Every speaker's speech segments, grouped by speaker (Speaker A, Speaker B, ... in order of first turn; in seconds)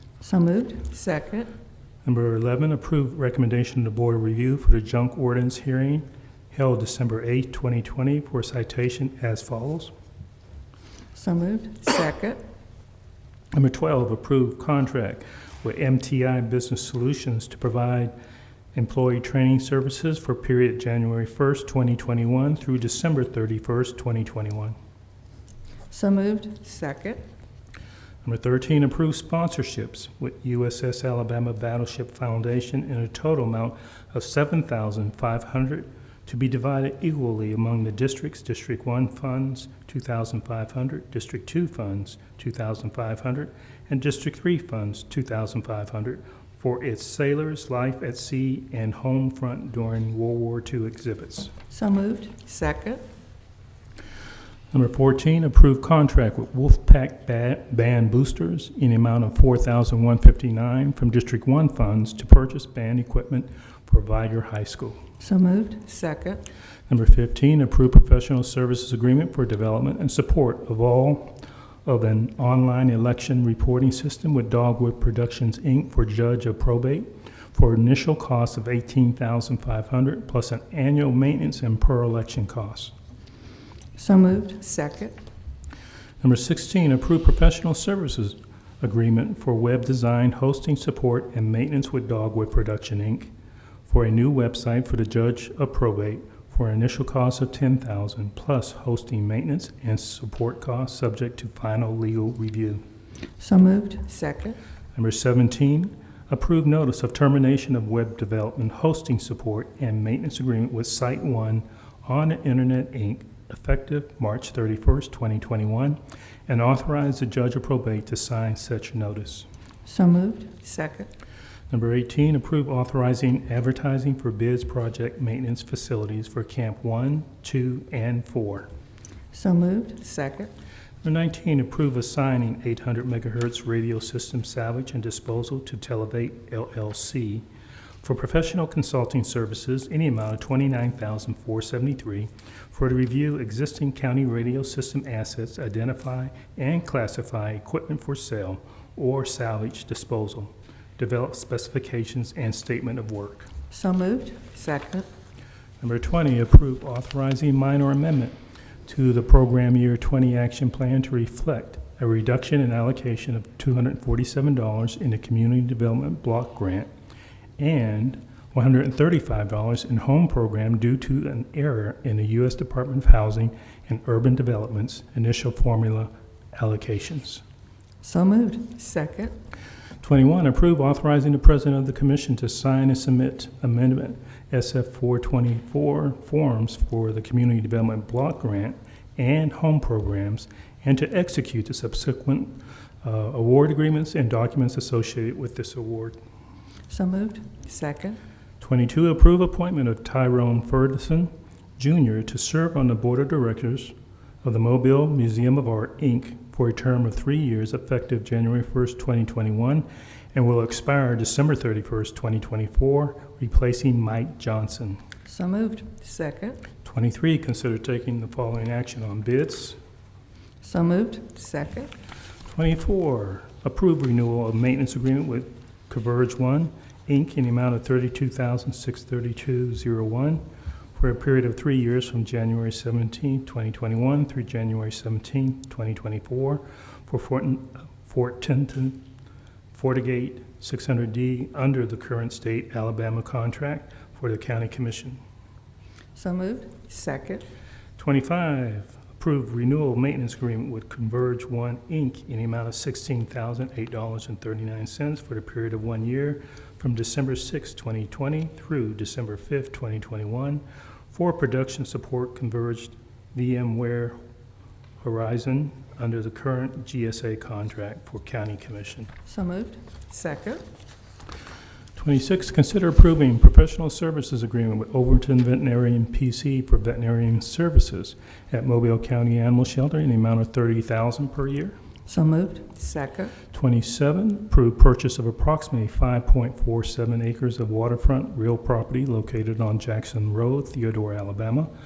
Speaker A: 0.2-0.9, 11.1-11.8, 25.9-26.6, 51.7-52.4, 65.2-65.8, 84.0-84.6, 103.4-104.0, 119.8-120.5, 129.3-130.0, 153.7-154.4, 178.0-178.7, 196.9-197.5, 215.2-215.9, 220.6-221.3, 246.1-246.8, 269.2-269.8, 282.1-282.7
Speaker B: 0.9-1.5, 11.8-12.4, 26.6-27.2, 52.4-53.0, 65.8-66.4, 84.6-85.2, 104.1-104.6, 120.6-121.1, 130.0-130.5, 154.5-155.1, 178.8-179.3, 197.6-198.2, 216.0-216.6, 221.3-221.9, 246.9-247.4, 270.1-270.6, 282.8-283.3
Speaker C: 2.0-9.9, 13.5-18.1, 18.7-24.8, 28.2-51.5, 54.7-65.0, 66.9-82.9, 86.2-93.3, 93.8-102.8, 104.9-119.5, 121.7-128.7, 131.0-137.4, 138.0-153.5, 155.8-166.9, 167.6-177.4, 180.0-196.2, 198.6-215.0, 216.8-219.8, 222.5-230.4, 230.9-239.0, 239.7-245.2, 248.0-264.2, 265.0-269.1, 271.9-281.8, 283.5-291.7